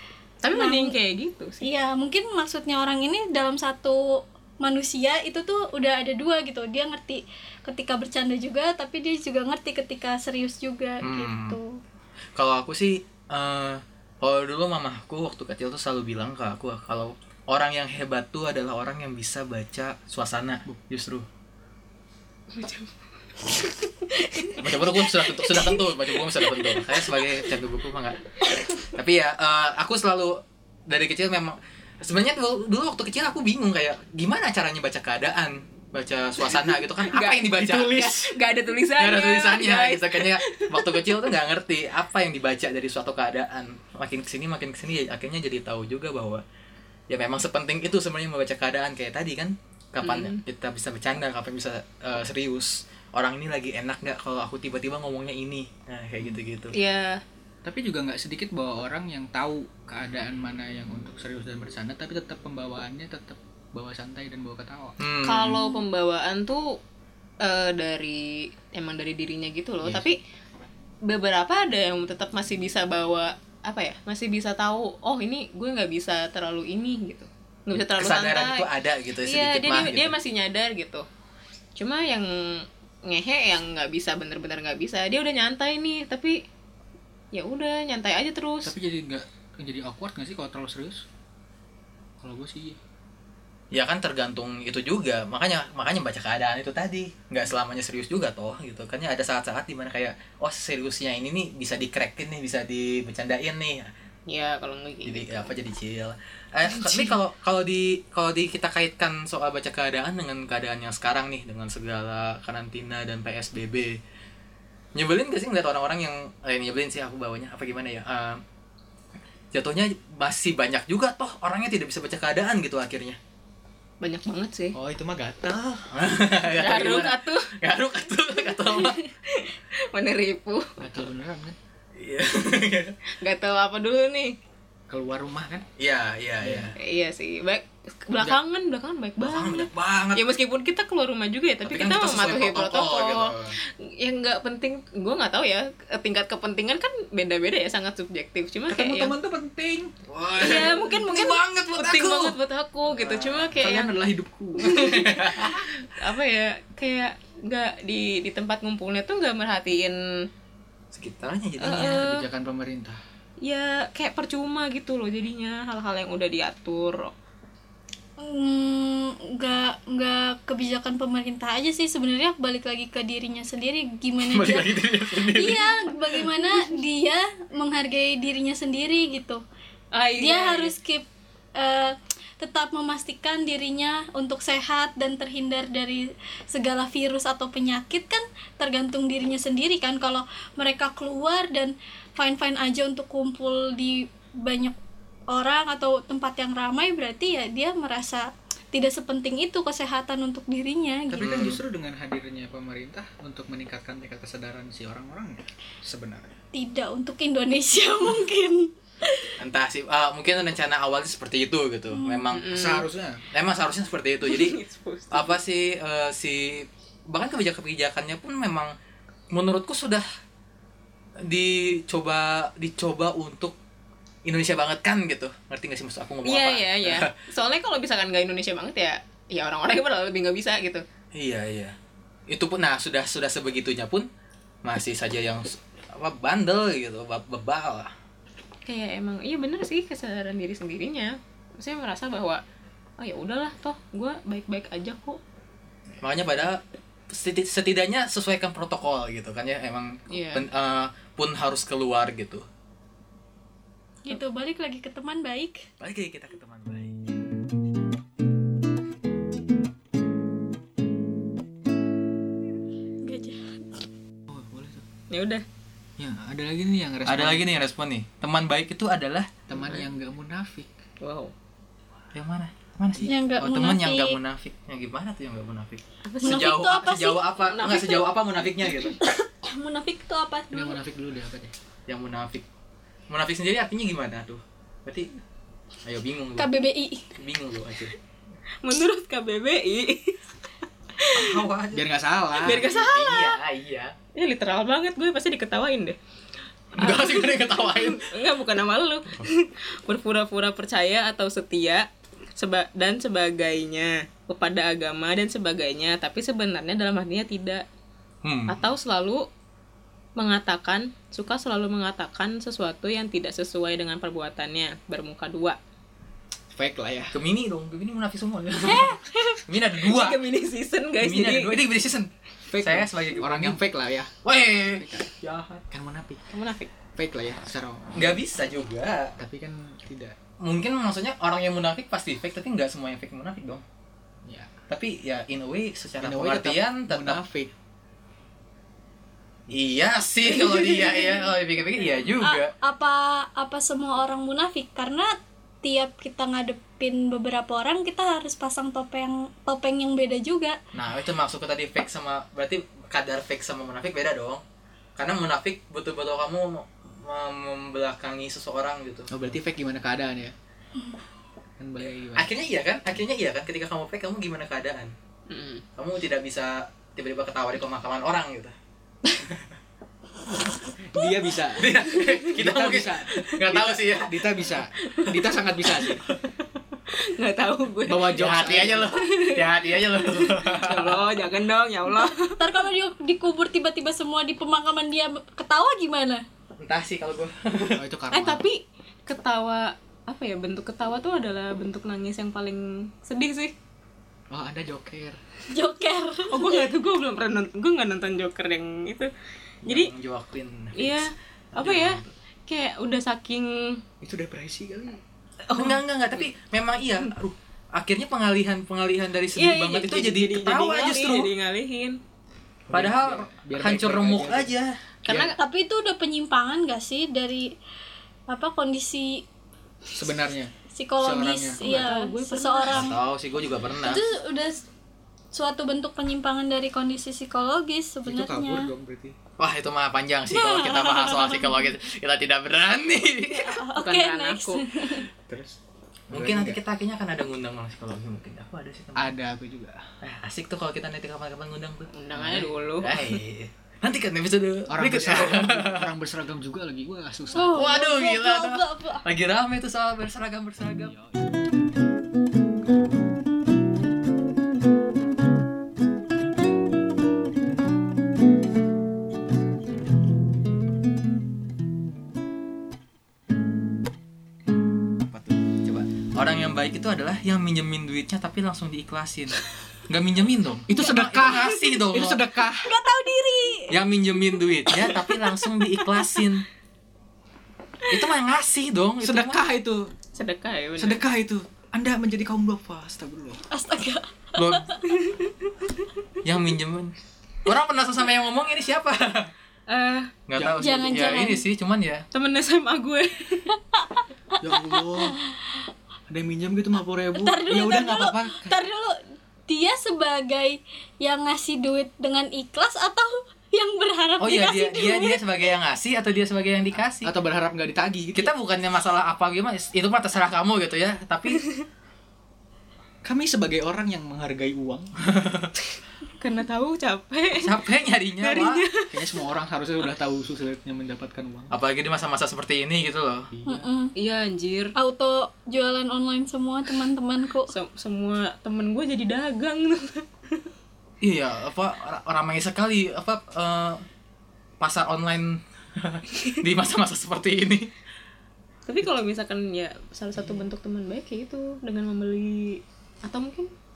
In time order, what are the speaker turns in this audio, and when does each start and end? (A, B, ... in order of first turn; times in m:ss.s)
0:00.4-0:01.7 A
0:00.5-0:01.0 B
0:01.6-0:11.8 B
0:11.0-0:11.6 C
0:12.4-0:21.3 C
0:22.5-0:27.3 A
0:24.6-0:28.2 C
0:28.9-0:38.2 C
0:36.6-0:41.2 A
0:37.7-0:38.2 D
0:39.0-0:46.4 C
0:47.1-0:56.8 C
0:50.0-0:50.4 A
0:56.7-0:57.2 A
0:57.6-1:05.0 D
1:05.0-1:05.7 C
1:05.2-1:06.8 A
1:07.4-1:10.2 A
1:11.0-1:18.7 A
1:17.7-1:20.2 C
1:19.2-1:21.1 A
1:21.8-1:26.4 A
1:27.3-1:28.7 A
1:28.6-1:31.0 D
1:32.2-1:32.8 D
1:33.7-1:43.9 C
1:44.3-1:45.5 A
1:45.0-1:54.0 C
1:55.0-1:58.4 C
1:59.5-2:03.2 C
2:04.0-2:04.8 A
2:04.7-2:05.9 D
2:05.9-2:09.0 C
2:06.5-2:07.5 A
2:08.5-2:10.7 A
2:10.8-2:11.6 D
2:12.0-2:13.0 C
2:13.2-2:14.4 A
2:14.9-2:15.6 D
2:15.8-2:16.7 C
2:16.4-2:16.7 D
2:16.8-2:29.2 A
2:19.2-2:20.2 C
2:21.7-2:23.6 C
2:28.7-2:29.9 D
2:30.1-2:32.4 C
2:30.4-2:33.9 A
2:32.9-2:33.5 C
2:33.5-2:35.2 D
2:34.6-2:40.3 A
2:34.6-2:35.6 C
2:40.9-2:42.1 C
2:41.6-2:42.2 A
2:41.8-2:43.0 D
2:43.4-2:47.1 A
2:48.2-2:59.4 B
2:54.2-2:56.2 C
2:59.9-3:00.7 A
3:00.2-3:14.8 B
3:15.3-3:21.6 B
3:21.1-3:26.4 D
3:21.2-3:21.6 C
3:26.5-3:29.3 B
3:29.4-3:32.5 C
3:32.0-3:32.3 B
3:32.3-3:32.9 A
3:32.5-3:33.2 D
3:33.3-3:34.6 C
3:34.2-3:35.4 A
3:35.1-3:38.7 C
3:39.3-3:40.0 C
3:41.2-3:43.6 C
3:44.3-3:47.1 C
3:46.2-3:50.8 A
3:51.2-3:51.7 C
3:52.3-3:54.1 C
3:54.6-3:57.9 C
3:58.7-4:02.4 A
4:03.0-4:05.2 A
4:06.0-4:12.4 C
4:10.1-4:10.4 A
4:14.0-4:15.6 B
4:15.8-4:17.0 C
4:23.0-4:23.6 B
4:24.3-4:24.8 D
4:25.1-4:25.4 A
4:26.0-4:27.5 D
4:27.0-4:29.3 C
4:29.5-4:30.7 D
4:29.6-4:29.9 A
4:31.0-4:31.3 A
4:32.1-4:39.0 C
4:33.0-4:34.2 B
4:36.0-4:36.6 A
4:36.2-4:37.2 B
4:37.4-4:38.1 A
4:39.0-4:40.8 B
4:40.5-4:41.5 D
4:41.9-4:42.4 C
4:43.1-4:45.1 C
4:45.8-4:46.5 C
4:46.4-4:47.1 B
4:47.2-4:47.9 C
4:48.6-4:50.2 A
4:51.0-4:51.5 A
4:51.1-4:53.9 C
4:51.7-4:52.7 D
4:52.4-4:53.4 A
4:54.2-4:56.0 A
4:56.8-4:58.1 C
4:56.8-5:07.6 A
5:08.2-5:08.7 C
5:08.5-5:09.3 A
5:10.2-5:15.6 A
5:16.5-5:17.2 D
5:17.1-5:20.2 C
5:18.6-5:21.6 A
5:21.0-5:23.6 C
5:22.5-5:24.1 D
5:24.2-5:25.6 C
5:24.8-5:25.1 D
5:25.7-5:26.2 D
5:26.3-5:26.7 A
5:27.0-5:28.2 D
5:28.0-5:29.1 C
5:29.2-5:30.2 D
5:30.4-5:33.6 C
5:34.2-5:34.5 D
5:34.7-5:37.2 C
5:36.0-5:37.5 D
5:39.5-5:42.5 C
5:42.2-5:50.6 B
5:50.7-5:54.4 C
5:55.0-5:59.1 C
5:59.1-6:00.3 D
6:01.6-6:02.3 D
6:02.2-6:04.9 C
6:05.3-6:05.6 A
6:05.8-6:08.6 C
6:10.8-6:16.0 D
6:11.6-6:14.4 C
6:12.0-6:12.2 A
6:14.8-6:15.8 A
6:16.9-6:18.3 A
6:17.9-6:18.9 D
6:18.1-6:21.0 C
6:18.9-6:22.4 A
6:21.9-6:26.2 B
6:26.6-6:27.8 C
6:27.8-6:28.4 D
6:28.1-6:33.5 A
6:34.3-6:35.2 D
6:35.5-6:36.7 B
6:36.3-6:39.1 A
6:39.6-6:42.1 C
6:39.7-6:39.9 A
6:40.8-6:43.8 A
6:44.0-6:45.0 D
6:45.5-6:46.3 A
6:45.5-6:51.3 C
6:49.4-6:52.0 A
6:52.7-6:54.5 D
6:52.7-6:54.8 C
6:55.0-6:55.4 A
6:55.1-6:55.4 D
6:55.4-6:57.5 B
6:58.3-6:59.2 B
6:59.9-7:01.9 D
7:00.7-7:02.9 B
7:01.6-7:02.9 A
7:02.7-7:04.0 C
7:03.8-7:04.6 B
7:05.3-7:08.7 B
7:08.1-7:09.2 D
7:09.4-7:13.6 C
7:10.3-7:11.6 B
7:13.3-7:15.1 B
7:13.8-7:14.9 A
7:15.3-7:15.6 D
7:16.1-7:19.1 C
7:16.1-7:16.6 D
7:19.0-7:19.8 D
7:20.0-7:25.9 C
7:21.9-7:23.2 A
7:22.2-7:22.5 D
7:24.7-7:27.6 D
7:27.3-7:29.0 B
7:27.5-7:31.0 C
7:30.8-7:31.3 D
7:45.1-7:52.2 C
7:50.7-7:52.7 D
7:52.6-7:53.8 B
7:53.7-7:56.5 C
7:54.7-7:55.8 B
7:57.9-7:59.4 C
7:59.0-7:59.9 D
8:00.2-8:01.0 A
8:00.8-8:03.4 D
8:03.5-8:04.8 B
8:04.4-8:04.7 C
8:04.9-8:05.3 A
8:06.2-8:06.9 C
8:07.4-8:09.3 C
8:09.7-8:10.2 A
8:10.3-8:12.0 C
8:10.4-8:11.2 D
8:10.6-8:11.4 B
8:12.1-8:13.5 A
8:13.8-8:15.4 B
8:14.4-8:15.2 D
8:16.1-8:18.5 D
8:17.2-8:25.2 B
8:24.2-8:27.1 C
8:27.0-8:28.3 D
8:28.1-8:31.4 C
8:31.4-8:31.6 A
8:33.0-8:34.9 D
8:35.1-8:35.5 C
8:36.2-8:37.6 A
8:37.4-8:38.6 C
8:38.2-8:39.2 A
8:38.9-8:41.5 D
8:41.5-8:43.3 C
8:43.3-8:43.7 D
8:43.5-8:43.9 B
8:44.0-8:44.7 A
8:44.8-8:47.5 B
8:47.5-8:50.5 A
8:51.0-8:53.8 C
8:54.6-8:57.7 C
8:58.7-9:03.5 A